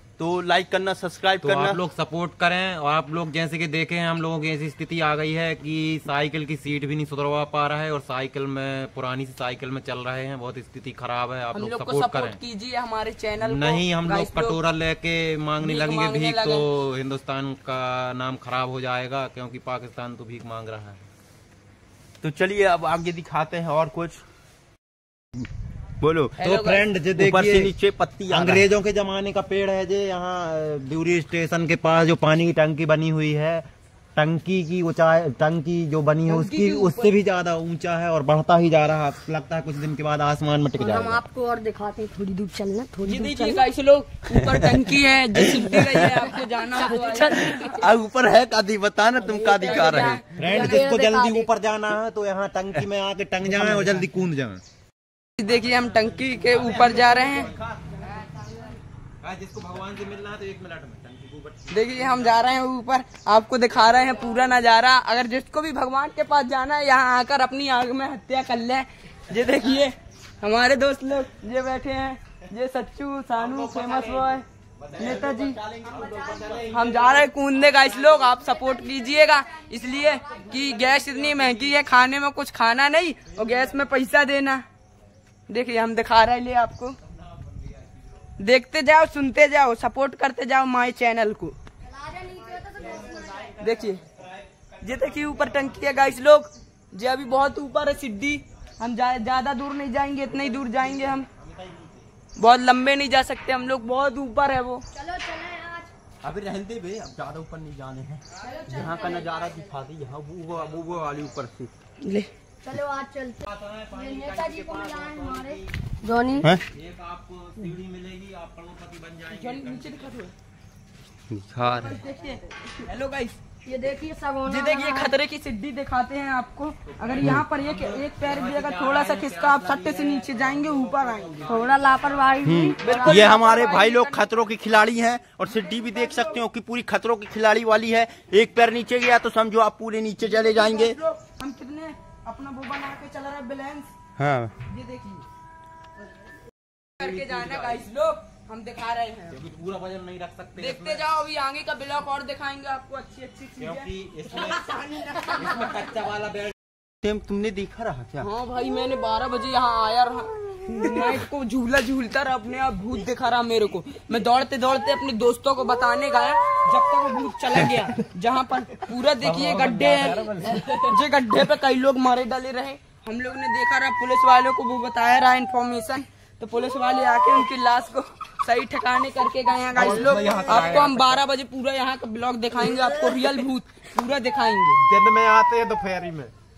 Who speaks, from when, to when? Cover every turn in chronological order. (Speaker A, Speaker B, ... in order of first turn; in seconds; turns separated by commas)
Speaker A: 0.2-1.8, Speaker B: 1.4-12.4, Speaker C: 11.5-14.6, Speaker B: 13.4-21.0, Speaker C: 15.6-16.7, Speaker A: 22.2-24.2, Speaker A: 26.0-26.4, Speaker C: 26.4-26.9, Speaker B: 26.4-27.7, Speaker A: 27.2-28.7, Speaker B: 28.3-41.2, Speaker C: 36.2-37.1, Speaker D: 40.8-43.6, Speaker C: 43.0-47.8, Speaker A: 44.5-44.8, Speaker A: 45.4-46.2, Speaker D: 46.1-47.7, Speaker A: 47.4-50.2, Speaker D: 49.2-51.5, Speaker C: 49.6-51.0, Speaker B: 50.3-54.6, Speaker C: 55.4-57.5, Speaker B: 55.5-57.5, Speaker A: 56.5-57.6, Speaker B: 59.2-62.4, Speaker C: 61.7-74.4, Speaker B: 73.4-75.2, Speaker A: 74.9-77.0, Speaker C: 75.0-75.6, Speaker B: 75.8-78.1, Speaker D: 76.0-76.6, Speaker C: 76.7-84.6, Speaker D: 78.7-80.6, Speaker B: 81.0-81.7, Speaker C: 85.5-87.0, Speaker C: 88.4-91.5, Speaker D: 91.8-93.6, Speaker B: 92.7-96.1, Speaker C: 93.6-94.0, Speaker C: 94.8-101.3, Speaker B: 100.3-102.0, Speaker C: 102.4-104.8, Speaker D: 104.9-105.9, Speaker A: 106.2-111.7, Speaker D: 108.4-109.3, Speaker B: 110.5-111.3, Speaker C: 112.0-112.3, Speaker D: 112.6-116.5, Speaker B: 113.4-115.7, Speaker B: 116.7-120.1, Speaker C: 119.3-120.3, Speaker A: 121.3-122.0, Speaker C: 121.6-123.4, Speaker D: 123.6-125.1, Speaker C: 124.4-131.7, Speaker B: 126.9-133.0, Speaker D: 131.5-133.3, Speaker A: 132.4-140.9, Speaker C: 132.7-134.3, Speaker C: 135.5-136.4, Speaker C: 140.2-143.9, Speaker A: 144.2-144.5, Speaker C: 144.7-145.2, Speaker C: 147.0-149.4, Speaker B: 147.0-147.8, Speaker B: 149.3-151.0, Speaker C: 150.6-155.7, Speaker B: 153.6-154.7, Speaker B: 155.2-156.5, Speaker A: 157.0-158.3, Speaker C: 158.2-184.8, Speaker A: 169.2-170.9, Speaker B: 170.2-170.7, Speaker B: 179.7-181.2, Speaker B: 182.7-183.4, Speaker B: 184.8-186.3